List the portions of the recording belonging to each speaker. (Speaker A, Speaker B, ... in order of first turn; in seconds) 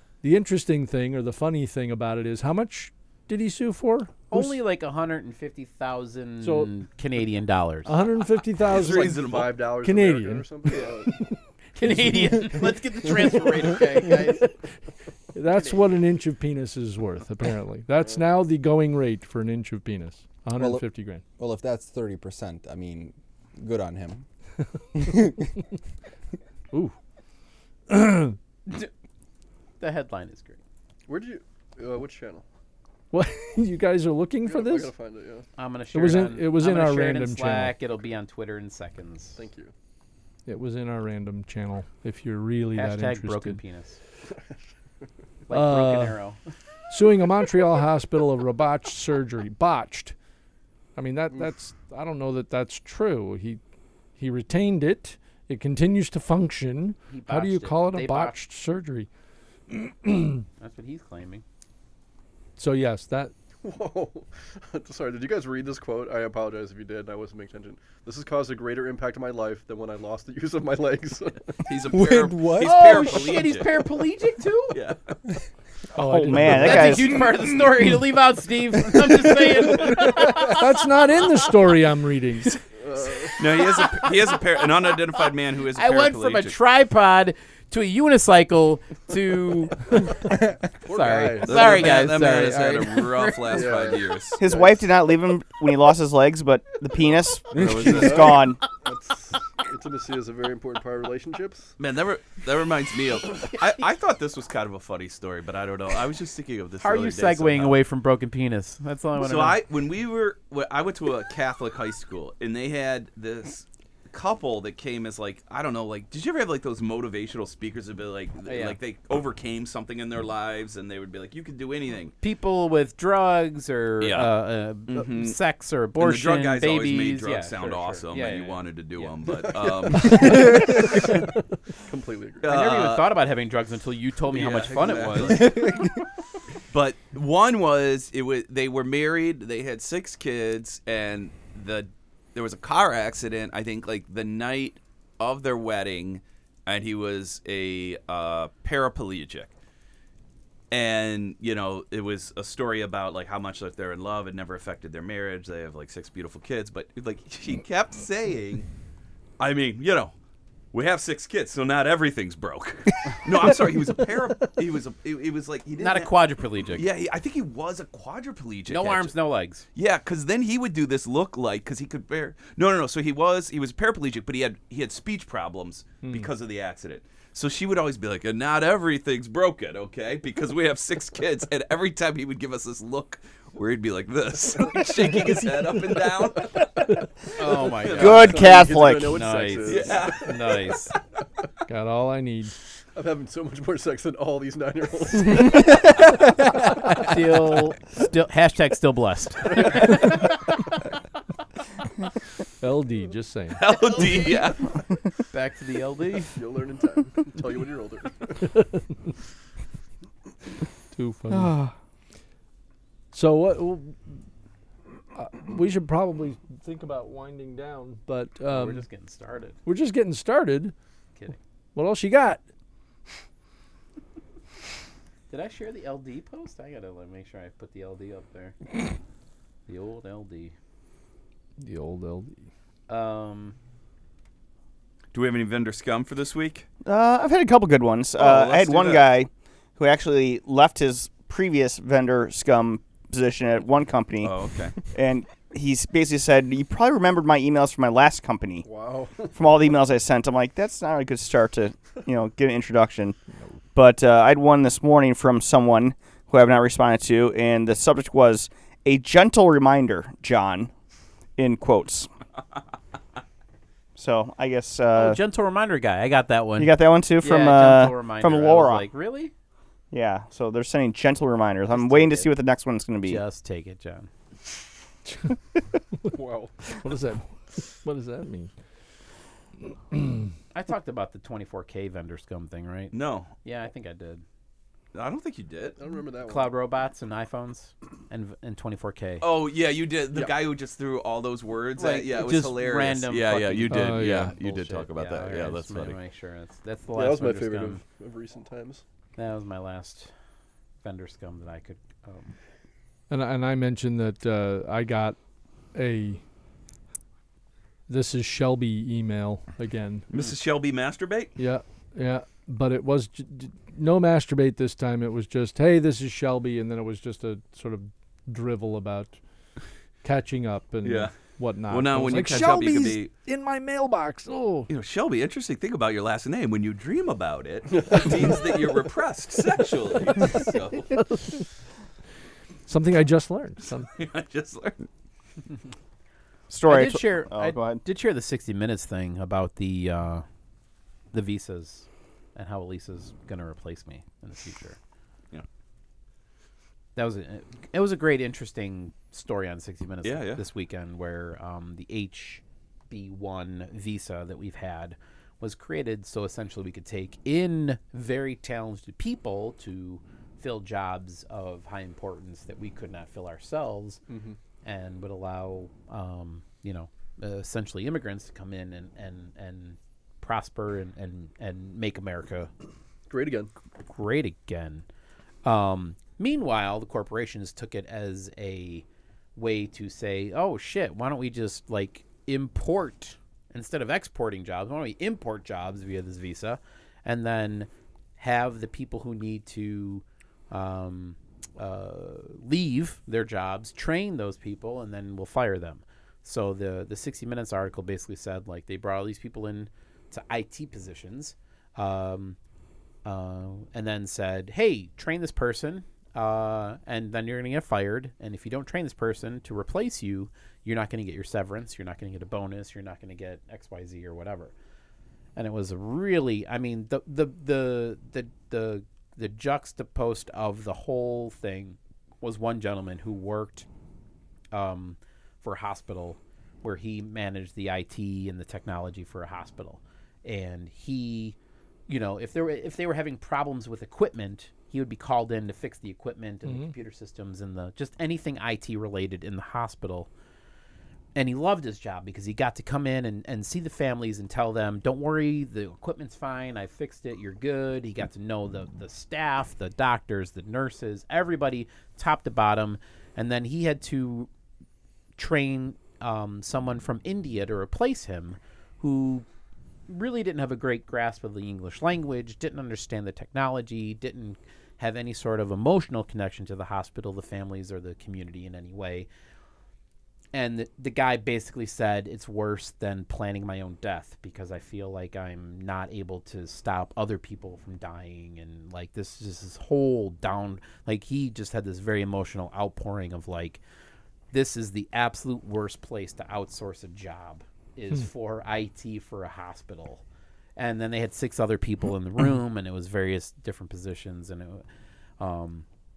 Speaker A: 0.2-4.5, 6.4-6.7, 7.8-9.3, 9.8-12.7, 13.7-14.5, 15.3-21.2, 25.0-25.3, 27.9-28.4, 33.1-34.9, 35.9-37.8, 40.5-43.6, 45.5-46.2, 46.9-50.1, 51.0-53.6, 54.2-59.1, 59.7-60.5, 62.6-63.3, 76.0-77.2, 79.9-82.6, 191.7-192.5, 202.6-203.6, 210.9-211.6, 213.1-214.2, 215.2-218.8, 219.7-220.7, 221.8-222.4, 231.6-232.4, 276.7-278.5, 279.9-280.3, 293.7-294.4, 303.1-305.2, 305.8-306.2, 307.9-310.1, 311.4-319.2, 320.0-324.7, 332.7-333.9, 436.5-436.7
Speaker B: 4.3-8.0, 11.8-14.5, 15.5-15.9, 29.8-30.6, 35.6-39.4, 42.7-44.0, 45.5-46.4, 57.1-58.4, 60.6-61.4, 72.6-74.8, 76.5-81.3, 83.2-93.7, 106.8-109.6, 118.5-118.8, 122.2-129.2, 132.4-135.8, 165.8-166.9, 168.7-169.7, 187.4-190.9, 196.9-200.2, 205.3-206.3, 218.5-219.6, 225.3-228.6, 229.7-230.5, 232.9-233.6, 264.9-269.3, 271.7-272.3, 273.0-274.1, 280.5-284.2, 286.3-289.2, 291.8-297.8, 299.2-300.1, 300.8-302.4, 336.6-340.2, 341.1-344.8, 347.0-364.0, 364.6-372.5, 373.8-374.9, 375.4-402.4, 403.1-414.5, 415.4-423.7, 424.5-431.4, 431.9-440.1, 441.2-454.3, 455.2-459.3, 459.9-469.1, 470.3-483.6, 484.3-490.0, 490.6-494.6, 495.2-495.7
Speaker C: 8.6-9.6, 71.6-73.9, 74.7-75.2, 83.4-86.6, 91.4-94.4, 101.8-107.8, 109.2-122.2, 124.0-124.3, 124.9-125.4, 126.0-130.7, 132.4-133.1, 134.3-135.8, 136.7-149.5, 150.7-158.7, 159.4-160.1, 160.7-166.1, 166.8-169.1, 169.8-187.0, 187.7-188.3, 189.7-190.4, 203.6-204.8, 235.1-236.7, 238.2-239.1, 244.2-244.8, 282.9-283.3, 284.9-285.8, 289.2-296.0, 310.1-311.3, 320.8-321.2, 321.7-323.1, 324.7-330.9, 333.9-334.8, 350.0-350.4
Speaker D: 8.7-11.2, 31.1-32.5, 34.4-35.5, 39.4-39.7, 63.6-71.7, 82.8-83.4, 90.8-92.0, 93.5-94.8, 97.9-101.7, 130.1-131.2, 131.8-132.5, 188.0-190.4, 192.9-195.6, 206.3-208.3, 248.6-249.5, 276.1-276.5, 285.8-286.5, 296.9-298.8, 364.1-364.4, 373.1-373.5
Speaker E: 20.6-20.9, 21.4-24.3, 24.9-25.5, 71.9-72.8
Speaker F: 76.0-77.2, 94.4-98.6, 188.0-189.2, 211.3-211.7, 236.8-244.3, 244.9-248.7, 249.3-253.2, 253.8-260.7, 261.4-262.1, 264.0-265.2, 266.6-268.9, 269.9-273.2, 336.5-337.8